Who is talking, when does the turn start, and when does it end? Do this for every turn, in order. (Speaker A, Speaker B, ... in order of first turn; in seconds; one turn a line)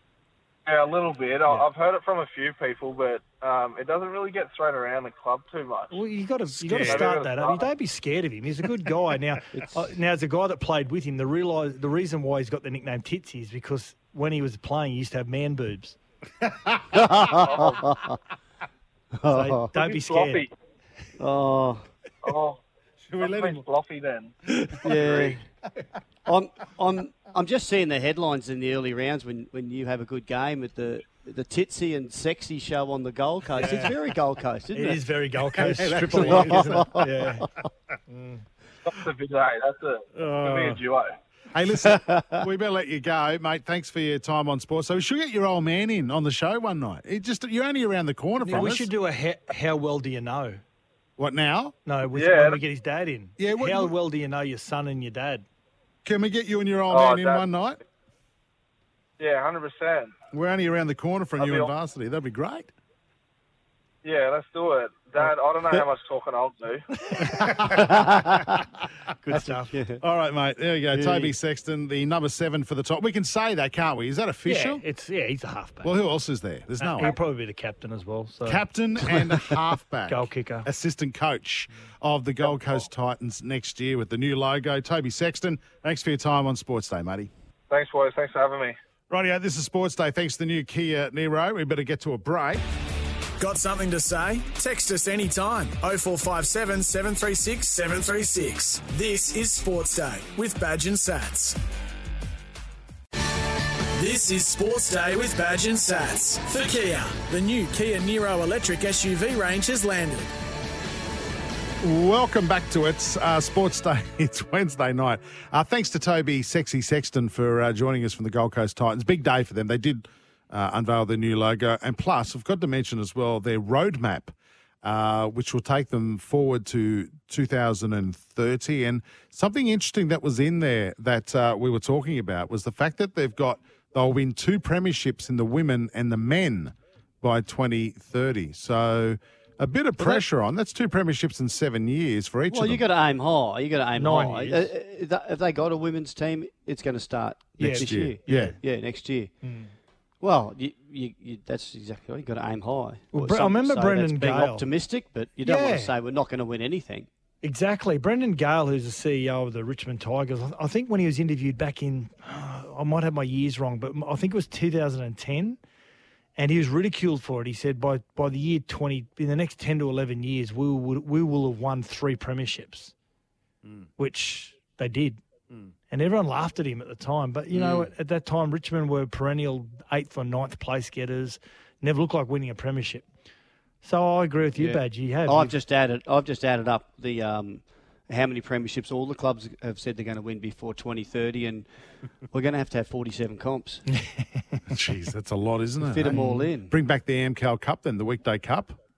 Speaker A: 0.7-6.0
Speaker B: 5.9-16.0
Speaker C: 6.6-7.0
Speaker A: 6.8-7.7
Speaker D: 9.5-9.9
Speaker C: 16.4-17.5
Speaker D: 16.9-18.2
Speaker A: 17.5-17.8
Speaker D: 19.1-19.7
Speaker B: 19.3-20.4
Speaker A: 19.8-20.5
Speaker D: 21.2-21.9
Speaker A: 22.2-22.6
Speaker C: 23.0-23.6
Speaker A: 23.2-25.4
Speaker C: 24.6-24.9
Speaker D: 24.8-25.5
Speaker D: 26.3-35.0
Speaker B: 33.6-34.0
Speaker B: 34.7-37.5
Speaker C: 35.6-37.3
Speaker D: 36.1-37.3
Speaker B: 38.1-38.4
Speaker A: 38.9-41.2
Speaker C: 40.2-40.8
Speaker C: 41.5-48.9
Speaker D: 41.9-42.5
Speaker B: 48.4-50.6
Speaker C: 51.2-51.8
Speaker B: 51.9-55.5
Speaker A: 52.1-52.6
Speaker C: 53.4-53.9
Speaker C: 56.0-57.8
Speaker A: 56.9-57.5
Speaker A: 59.2-60.1
Speaker C: 60.3-62.7
Speaker A: 61.4-61.7
Speaker A: 64.0-66.8
Speaker C: 67.2-68.7
Speaker D: 67.7-68.6
Speaker D: 69.2-70.0
Speaker B: 69.3-69.7
Speaker C: 70.0-74.8
Speaker D: 70.9-71.3
Speaker B: 74.5-75.9
Speaker C: 75.8-77.2
Speaker B: 76.8-78.6
Speaker C: 78.5-87.3
Speaker B: 80.1-80.7
Speaker A: 82.5-82.8
Speaker A: 87.7-88.8
Speaker C: 89.1-92.6
Speaker E: 93.4-101.6
Speaker E: 103.9-110.3
Speaker C: 111.8-142.8
Speaker D: 142.5-149.3
Speaker B: 144.0-144.7
Speaker B: 147.6-148.6
Speaker C: 147.6-148.6
Speaker B: 149.4-149.7
Speaker D: 150.2-157.1
Speaker B: 153.1-154.7
Speaker B: 155.4-155.9
Speaker B: 157.4-165.6
Speaker B: 166.4-172.9
Speaker B: 174.0-175.2
Speaker B: 175.9-183.1
Speaker D: 177.5-177.9
Speaker B: 183.8-185.5
Speaker D: 184.6-191.7
Speaker D: 192.3-193.8
Speaker B: 193.9-194.6
Speaker C: 194.7-198.8
Speaker D: 195.8-196.7
Speaker B: 196.1-196.5